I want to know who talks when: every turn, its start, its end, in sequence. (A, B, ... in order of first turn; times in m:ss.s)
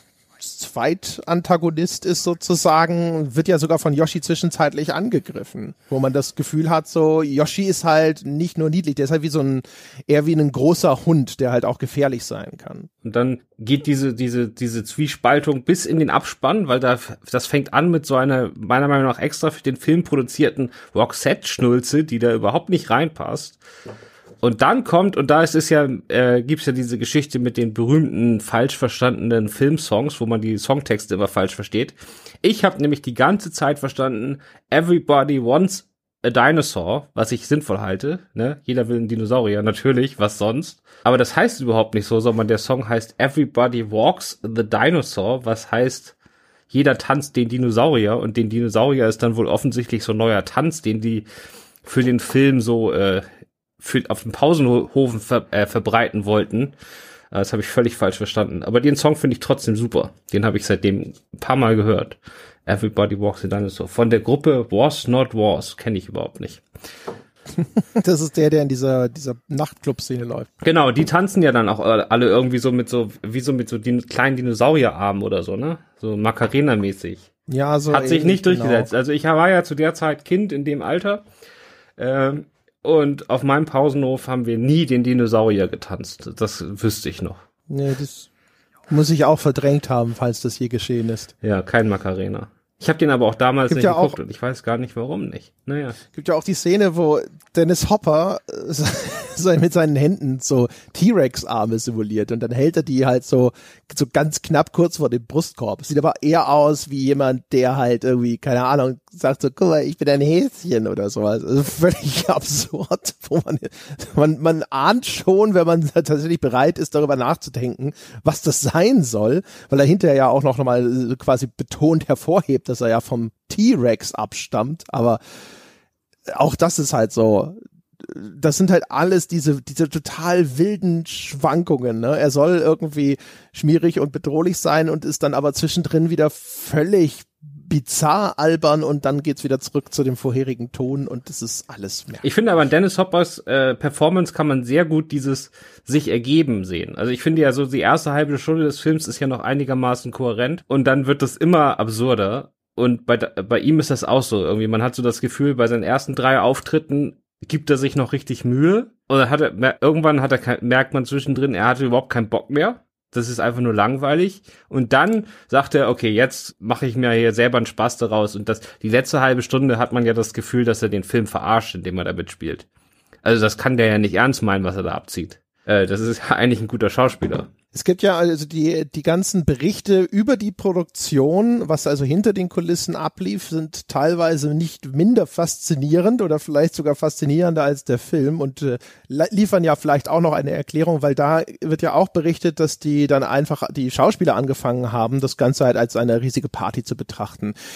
0:00.4-0:12.9 A
0:13.0-0:23.6 B
0:24.4-0:46.2 B
0:46.7-0:51.3 B
0:51.8-0:53.2 B
0:53.8-0:56.8 B
0:57.3-1:06.6 B
1:07.6-1:10.5 A
1:10.6-1:17.3 B
1:17.5-1:18.9 A
1:17.9-1:21.2 B
1:22.0-1:27.4 B
1:27.7-1:28.3 A
1:28.9-1:31.3 A
1:31.4-1:36.0 B
1:33.7-1:34.2 A
1:36.1-2:05.2 A
2:06.3-2:22.3 A
2:22.2-2:52.7 B
2:53.2-2:57.5 B
2:57.7-3:17.5 A